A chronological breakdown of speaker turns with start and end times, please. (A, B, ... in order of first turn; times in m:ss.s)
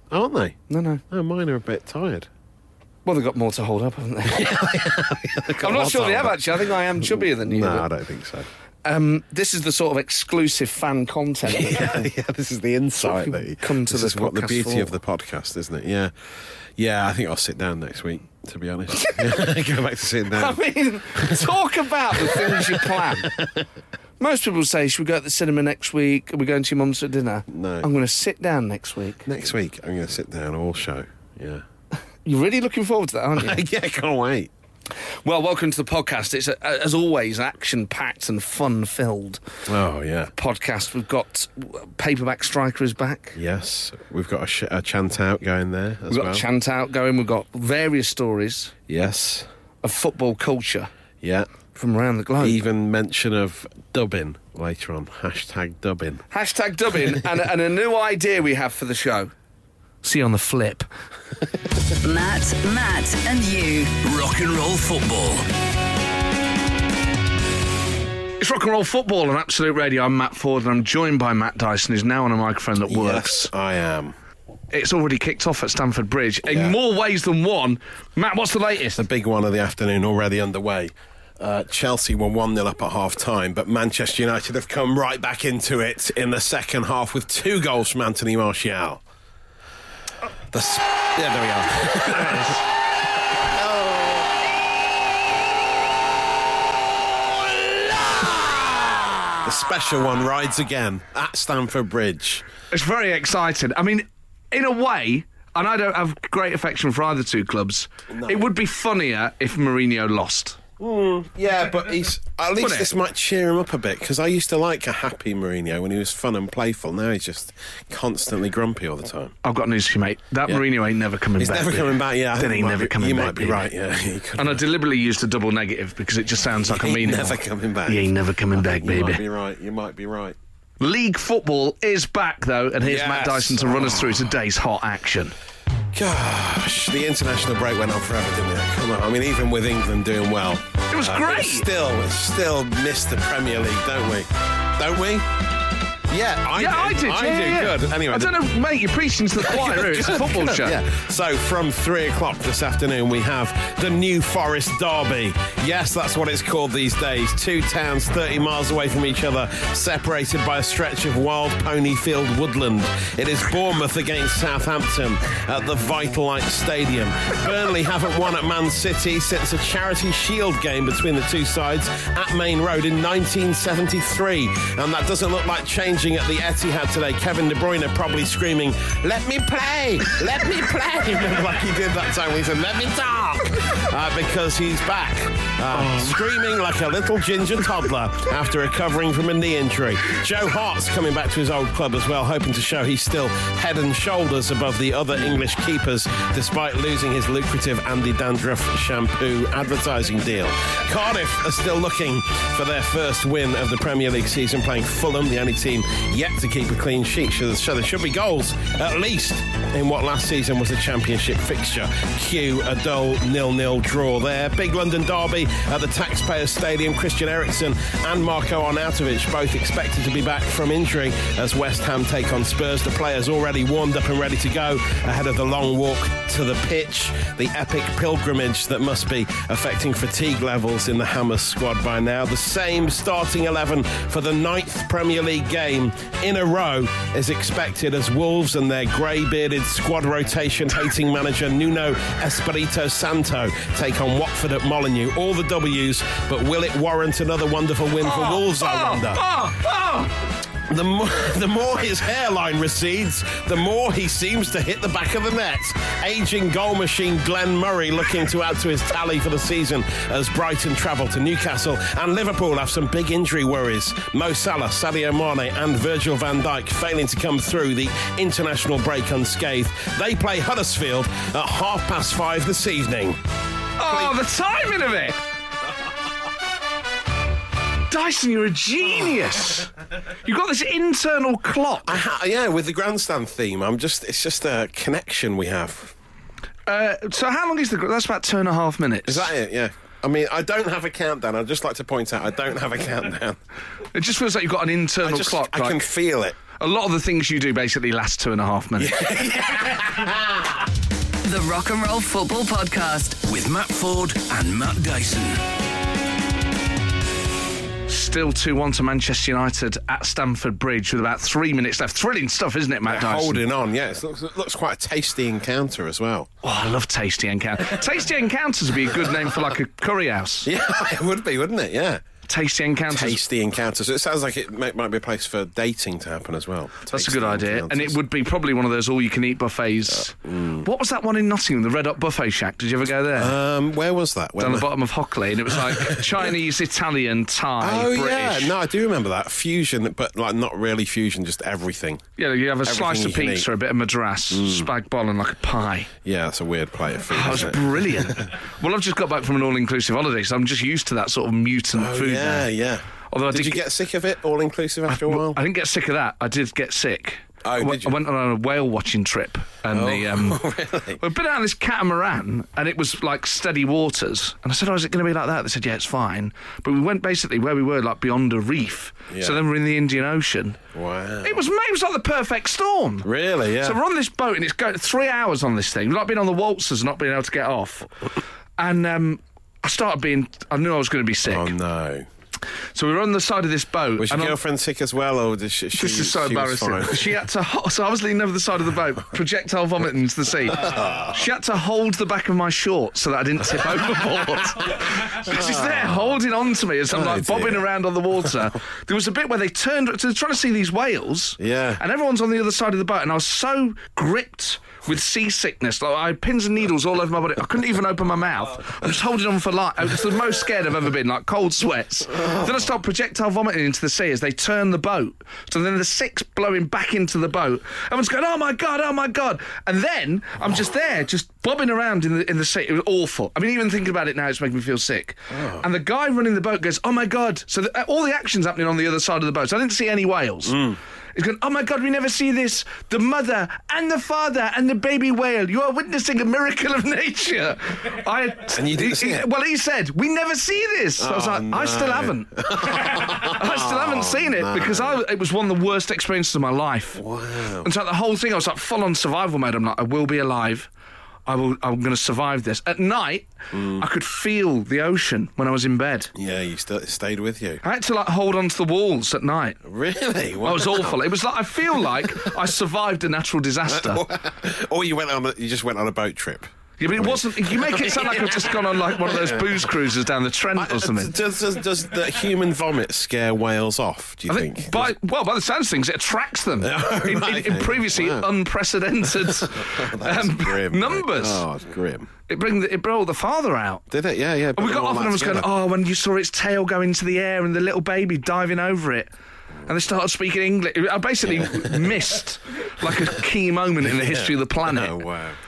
0:00.1-0:00.6 A
0:00.7-0:01.0 B
0:01.1-0:02.3 A
0:03.0-0:07.9 B
0:04.2-0:08.5 A
0:08.8-0:12.0 B
0:11.4-0:20.6 A
0:13.0-0:14.9 B
0:19.0-0:19.3 B
0:20.3-0:23.3 B
0:21.1-0:21.6 A
0:22.1-0:23.6 A
0:24.2-0:29.2 B
0:27.5-0:27.9 A
0:29.2-0:31.6 A
0:32.2-0:33.6 B
0:33.4-0:34.5 A
0:35.2-0:39.4 B
0:39.7-0:40.3 A
0:40.4-0:43.4 B
0:43.3-0:46.5 A
0:46.1-0:48.7 B
0:48.9-0:49.5 A
0:49.8-0:50.9 B
0:51.2-0:51.5 A
0:51.8-0:52.6 B
0:52.4-0:56.2 A
0:56.3-0:59.3 B
1:00.0-1:00.9 B
1:02.0-1:03.9 C
1:04.0-1:05.5 D
1:08.4-1:13.5 B
1:12.9-1:14.2 A
1:14.7-1:19.0 B
1:16.4-1:16.8 A
1:19.0-1:29.0 A
1:30.5-1:32.6 A
1:32.1-1:32.6 B
1:33.4-1:34.3 A
1:39.4-1:42.4 A
1:42.7-1:50.6 B
1:48.1-1:48.5 A
1:50.8-1:59.3 A
1:52.6-1:52.9 B
1:59.4-2:03.6 B
2:01.4-2:04.6 A
2:04.4-2:09.2 B
2:06.6-2:10.4 A
2:10.8-2:15.3 B
2:12.8-2:14.4 A
2:15.9-2:25.4 A
2:20.9-2:21.7 B
2:26.1-2:28.4 A
2:26.5-2:30.8 B
2:29.4-4:09.2 A
4:08.0-4:10.1 B
4:10.6-4:33.2 A
4:33.8-4:35.2 B
4:33.8-4:34.2 A
4:37.9-4:39.7 B
4:40.2-4:42.0 B
4:41.8-4:45.9 A
4:46.6-4:49.3 B
4:49.1-4:53.4 A
4:53.9-4:55.8 B
4:55.0-4:56.4 A
4:56.6-4:59.0 B
4:58.8-5:00.6 A
5:01.2-5:03.2 C
5:03.2-5:05.4 D
5:07.9-5:13.4 B
5:12.8-5:16.3 A
5:16.4-5:20.5 B
5:20.4-5:22.0 A
5:22.3-5:23.2 B
5:22.9-5:28.0 A
5:26.9-5:33.3 B
5:30.1-5:30.7 A
5:33.1-5:34.7 A
5:34.4-5:38.5 B
5:35.4-5:36.3 A
5:37.6-5:42.1 A
5:42.2-5:45.9 B
5:42.6-5:43.5 A
5:44.3-5:44.7 A
5:46.0-5:48.3 A
5:47.1-5:52.5 B
5:51.7-5:55.4 A
5:53.1-5:53.6 B
5:54.9-6:00.4 B
5:57.4-5:58.0 A
5:59.7-6:01.0 A
6:01.0-6:10.6 B
6:09.1-6:09.4 A
6:10.7-6:11.4 A
6:11.2-6:13.1 B
6:13.0-6:13.8 A
6:13.6-6:17.9 B
6:18.6-6:21.5 B
6:21.2-6:22.1 A
6:22.7-6:24.4 B
6:24.0-6:27.2 A
6:25.7-7:10.6 B
6:30.5-6:31.1 A
6:33.6-6:34.7 A
6:35.2-6:36.2 A
6:36.9-6:37.7 A
6:41.4-6:41.8 A
7:05.3-7:05.7 A
7:10.4-7:10.8 A
7:11.1-7:27.0 B
7:18.5-7:19.3 A
7:21.0-7:25.0 A
7:26.9-7:27.7 A
7:27.6-7:30.7 B
7:31.2-7:36.1 B
7:33.5-7:33.8 A
7:36.1-7:37.6 A
7:37.6-7:39.6 B
7:39.6-7:41.1 A
7:40.4-7:44.0 B
7:41.7-7:42.3 A
7:43.6-7:49.7 A
7:46.8-7:51.1 B
7:50.5-7:54.9 A
7:54.3-8:01.4 B
7:56.6-7:58.3 A
7:59.0-8:02.1 A
8:02.3-8:03.8 B
8:03.9-8:05.5 A
8:04.6-8:09.1 B
8:09.6-8:15.0 B
8:11.2-8:12.0 A
8:12.8-8:13.1 A
8:13.8-8:15.4 A